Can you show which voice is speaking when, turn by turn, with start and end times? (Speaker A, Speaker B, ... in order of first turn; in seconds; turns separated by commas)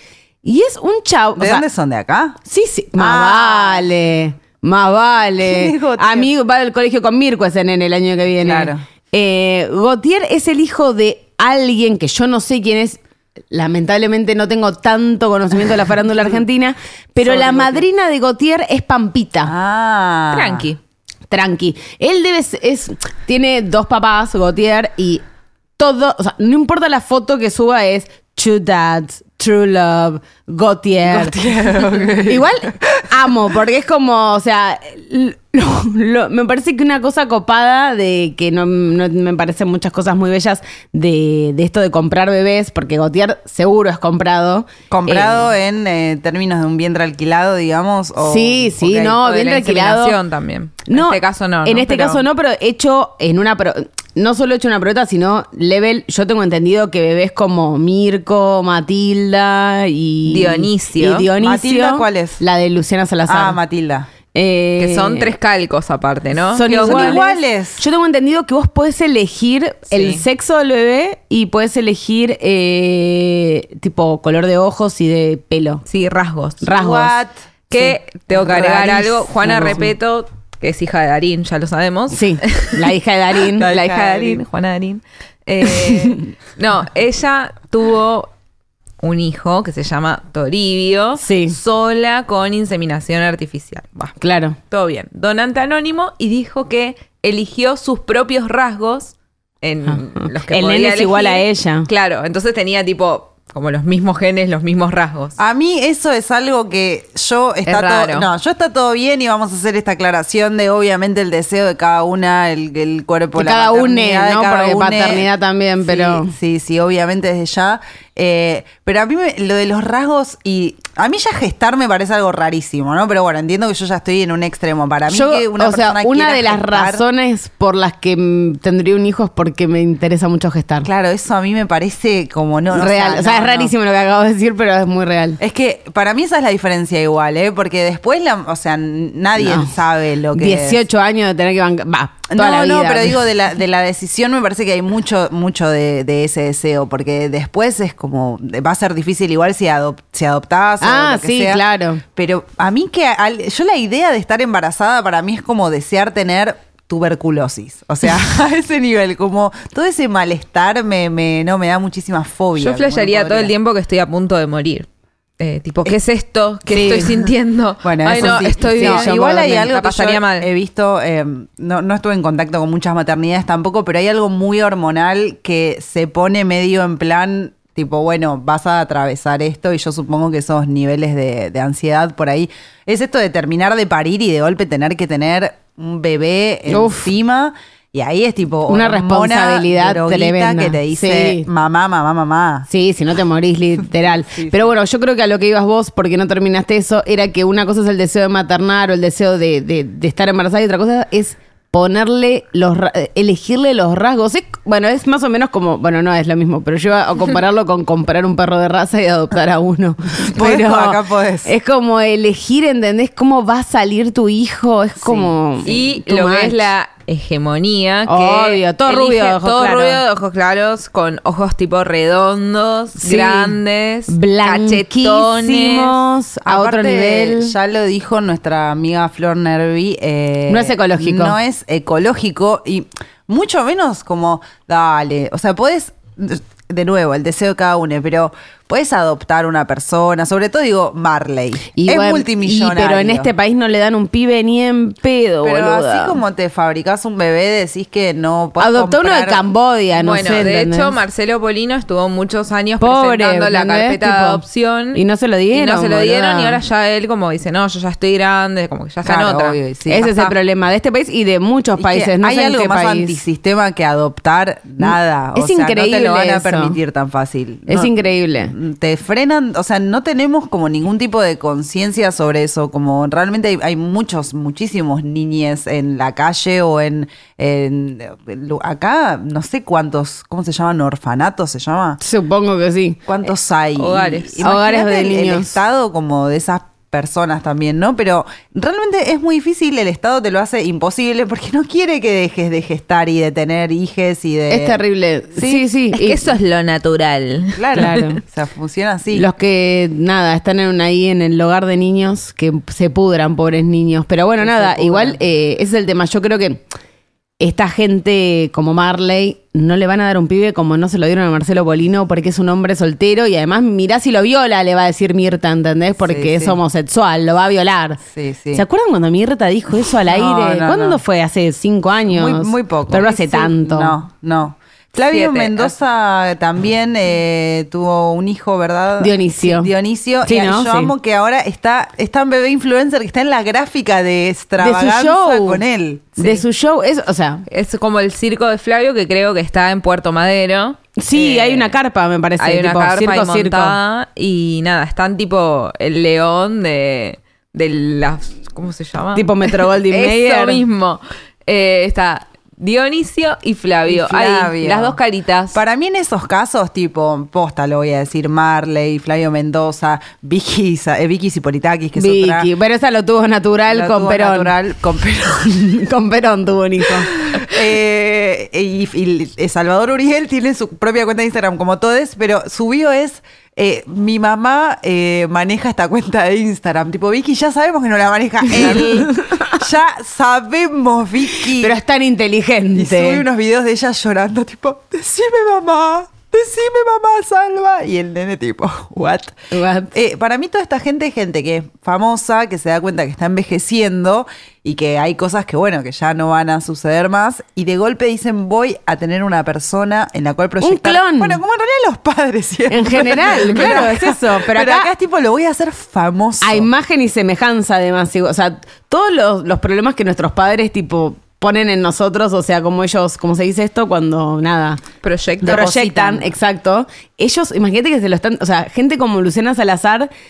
Speaker A: 0.4-1.6, Speaker B: 1.4-2.4, Speaker A: 2.4-19.5, Speaker B: 3.0-3.9, Speaker B: 5.4-6.3, Speaker B: 8.4-8.8, Speaker B: 17.2-17.8, Speaker B: 19.4-20.7, Speaker C: 20.3-20.8, Speaker A: 21.3-25.2, Speaker A: 25.8-31.4, Speaker B: 31.1-33.1, Speaker A: 32.2-45.5, Speaker B: 44.9-49.2, Speaker A: 48.2-50.2, Speaker C: 49.1-52.2, Speaker A: 50.9-63.6, Speaker C: 60.2-61.3, Speaker B: 61.4-62.4, Speaker B: 63.3-64.1, Speaker A: 64.3-65.3, Speaker C: 64.8-67.2, Speaker A: 66.5-75.8, Speaker B: 66.6-67.8, Speaker C: 69.9-70.2, Speaker C: 75.8-76.7, Speaker A: 76.6-77.1, Speaker B: 76.7-79.8, Speaker C: 77.7-82.9, Speaker A: 79.4-79.9, Speaker A: 82.1-83.7, Speaker B: 83.6-84.4, Speaker C: 83.6-88.3, Speaker C: 89.0-94.2, Speaker A: 91.2-91.6, Speaker A: 94.2-94.6, Speaker C: 94.7-105.3, Speaker A: 99.8-101.9, Speaker B: 105.4-115.3, Speaker C: 107.7-108.3, Speaker A: 113.3-116.3, Speaker B: 115.8-127.0, Speaker A: 125.1-130.9, Speaker B: 130.8-133.7, Speaker A: 132.7-135.4, Speaker B: 135.4-140.8, Speaker A: 139.4-139.7, Speaker A: 140.3-143.2, Speaker B: 142.3-151.6, Speaker A: 150.8-152.0, Speaker B: 152.1-163.5, Speaker C: 162.6-164.9, Speaker C: 165.4-170.5, Speaker A: 166.7-167.3, Speaker B: 167.8-192.7, Speaker A: 168.1-169.7, Speaker A: 186.7-187.1, Speaker A: 188.7-191.5, Speaker A: 192.7-216.7, Speaker B: 194.0-194.7, Speaker B: 210.2-211.5, Speaker B: 215.0-215.3, Speaker C: 215.6-226.0, Speaker A: 218.1-220.0, Speaker A: 223.0-227.5, Speaker B: 226.4-243.3, Speaker A: 230.5-231.3, Speaker A: 241.7-246.2, Speaker B: 245.4-249.4, Speaker A: 248.6-251.0, Speaker C: 249.9-255.0, Speaker A: 252.8-254.4, Speaker A: 254.9-256.6, Speaker C: 255.5-260.3, Speaker B: 259.0-260.1, Speaker A: 259.9-263.2, Speaker B: 261.8-267.9, Speaker A: 264.8-266.8, Speaker A: 267.7-268.5, Speaker B: 268.5-282.0, Speaker A: 282.0-283.0, Speaker B: 283.1-294.8, Speaker C: 283.8-284.5, Speaker A: 284.4-285.6, Speaker A: 294.5-296.3, Speaker B: 295.4-295.6, Speaker C: 295.9-297.9, Speaker B: 297.5-299.2, Speaker A: 297.7-298.2, Speaker A: 299.1-306.6, Speaker B: 304.4-305.2, Speaker A: 307.4-318.0, Speaker B: 316.0-316.6, Speaker B: 318.1-318.6, Speaker A: 318.5-324.0, Speaker B: 320.1-321.0, Speaker B: 322.1-336.4, Speaker C: 325.1-325.7, Speaker A: 329.0-329.7, Speaker A: 330.2-330.9, Speaker A: 334.6-335.6, Speaker A: 336.2-337.4, Speaker C: 337.5-341.8, Speaker A: 341.0-343.8, Speaker C: 342.4-355.6, Speaker A: 349.1-350.6, Speaker B: 353.9-355.0, Speaker B: 355.5-362.5, Speaker A: 361.9-364.5, Speaker B: 363.7-365.8, Speaker A: 365.6-367.1, Speaker B: 367.3-381.8, Speaker A: 378.6-379.2, Speaker A: 381.5-383.2, Speaker B: 382.7-389.3, Speaker A: 389.5-389.9, Speaker B: 389.9-406.7, Speaker A: 400.6-401.4, Speaker A: 402.7-404.9, Speaker A: 406.4-414.8, Speaker C: 415.0-415.8, Speaker A: 415.4-420.1, Speaker B: 415.4-416.2